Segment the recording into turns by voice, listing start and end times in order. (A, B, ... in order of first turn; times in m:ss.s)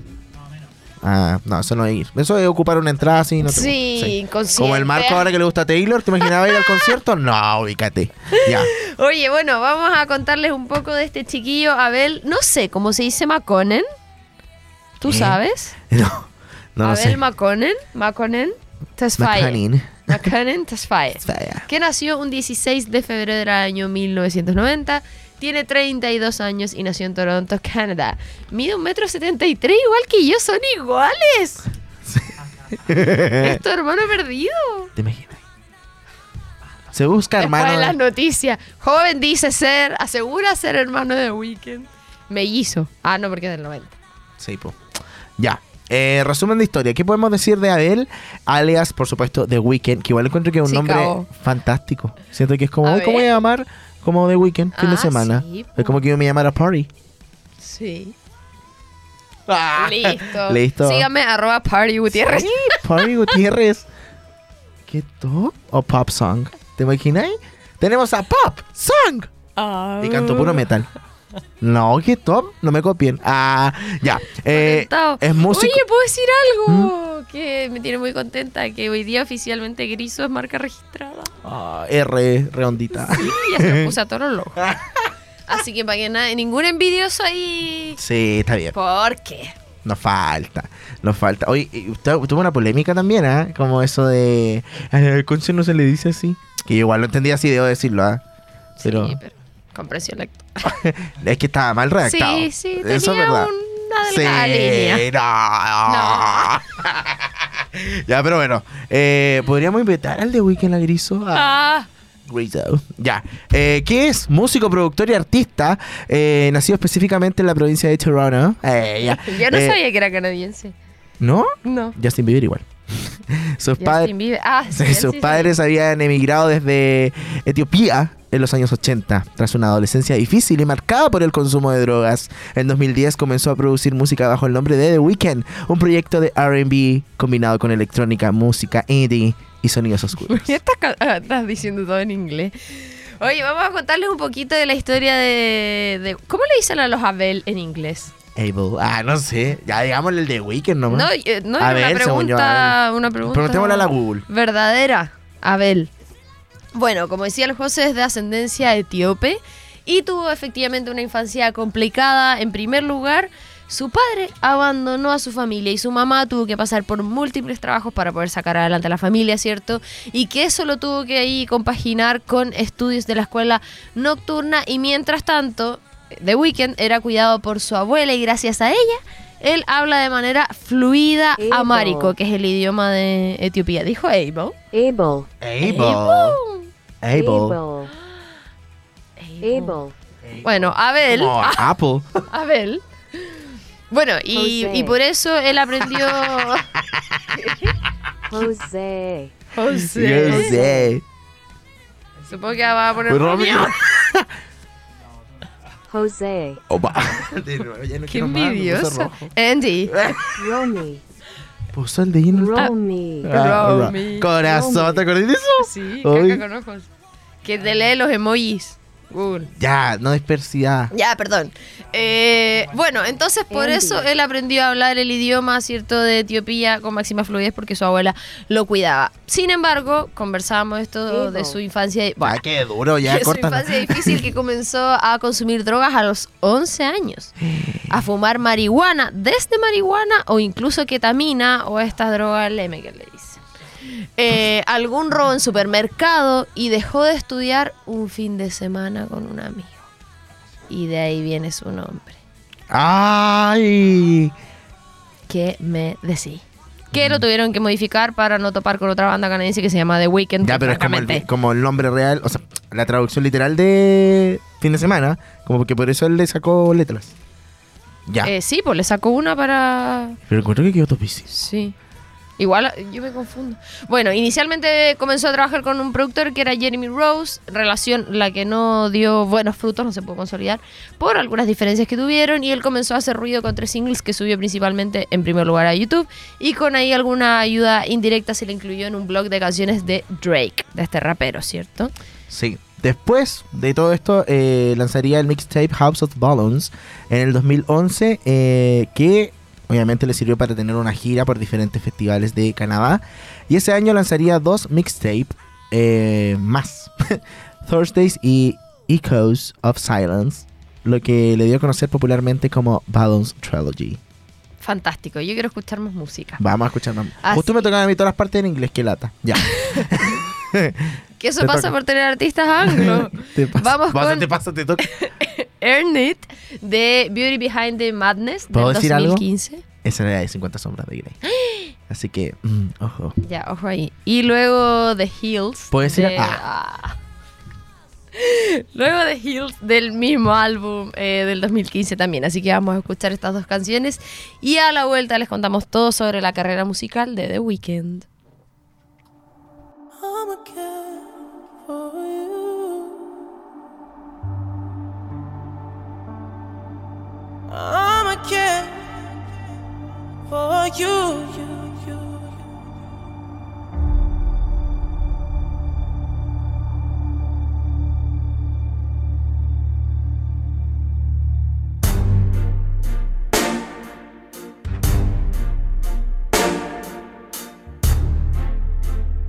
0:01.0-0:08.7 A
0:03.4-0:05.3 B
0:06.2-0:06.9 B
0:08.3-0:13.8 B
0:15.0-0:15.7 B
0:15.0-0:17.2 A
0:16.8-0:31.6 B
0:19.2-0:20.3 A
0:21.2-0:21.7 A
0:32.0-0:33.6 A
0:33.4-0:34.9 B
0:35.0-0:35.4 A
0:36.9-0:38.0 A
0:37.4-0:44.0 B
0:44.4-0:44.8 A
0:45.4-0:56.9 A
0:50.6-0:51.3 B
0:52.8-0:53.3 B
0:54.8-0:56.0 B
0:57.6-0:58.1 B
0:59.5-1:01.1 A
0:59.8-1:03.3 B
1:02.1-1:03.8 A
1:04.9-1:09.3 A
1:09.6-1:10.6 B
1:10.0-1:10.9 A
1:11.6-1:15.8 A
1:14.5-1:21.3 B
1:16.7-1:16.9 A
1:21.4-1:23.9 A
1:22.9-1:24.6 B
1:24.6-1:25.1 A
1:25.5-1:28.0 B
1:28.0-1:28.7 A
1:28.7-1:29.5 B
1:29.8-1:38.2 A
1:38.8-1:40.7 B
1:38.8-1:39.2 A
1:40.6-1:43.5 A
1:42.0-1:45.0 B
1:44.0-1:51.6 A
1:45.8-1:46.6 B
1:51.3-1:51.9 B
1:52.3-1:59.8 A
1:59.0-2:00.7 B
2:01.2-2:04.1 A
2:01.6-2:02.0 B
2:03.8-2:05.5 B
2:04.7-2:20.5 A
2:20.2-2:28.1 B
2:28.3-2:34.2 A
2:30.9-2:35.9 B
2:36.7-3:04.6 B
3:01.4-3:02.2 C
3:04.7-3:05.3 C
3:05.4-3:06.4 A
3:05.6-3:06.7 B
3:07.0-3:07.6 A
3:07.1-3:07.9 C
3:07.9-3:08.2 B
3:09.2-3:09.8 B
3:09.4-3:09.9 C
3:10.2-3:12.2 A
3:10.4-3:11.7 B
3:12.3-3:16.7 B
3:14.3-3:15.0 C
3:16.0-3:17.3 A
3:18.3-3:19.3 C
3:19.5-3:20.6 B
3:19.6-3:21.0 A
3:20.3-3:20.9 C
3:22.2-3:23.8 B
3:23.1-3:24.3 A
3:25.9-3:26.6 C
3:26.7-3:29.3 A
3:28.1-3:30.2 B
3:29.9-3:30.5 A
3:30.2-3:31.0 C
3:31.7-3:36.4 A
3:32.3-3:33.5 C
3:33.2-3:34.4 B
3:34.4-3:35.0 C
3:35.6-3:36.9 B
3:37.4-3:39.5 B
3:39.5-3:40.9 A
3:40.9-3:52.4 B
3:43.5-3:44.1 C
3:51.1-3:51.6 C
3:52.2-3:54.2 A
3:53.0-3:57.3 B
3:57.4-3:58.0 A
3:57.9-4:03.4 B
4:04.2-4:09.8 B
4:10.7-4:12.2 B
4:12.7-4:14.3 A
4:15.3-4:21.2 B
4:16.9-4:17.2 A
4:20.4-4:27.1 A
4:28.0-4:28.3 A
4:28.2-4:30.2 B
4:30.3-4:31.3 A
4:31.3-4:31.7 B
4:32.4-4:51.9 B
4:52.3-5:14.0 A
5:14.6-5:16.4 B
5:16.4-5:21.7 A
5:17.2-5:17.5 B
5:19.5-5:19.8 B
5:21.2-5:29.6 B
5:22.6-5:24.9 A
5:28.5-5:29.2 A
5:29.8-5:31.2 A
5:31.2-5:31.7 B
5:31.9-5:33.2 A
5:33.2-5:37.0 B
5:35.7-5:36.4 A
5:38.1-5:48.1 B
5:50.0-5:51.1 D
5:51.6-5:53.0 D
5:57.5-5:58.9 D
6:00.3-6:02.3 D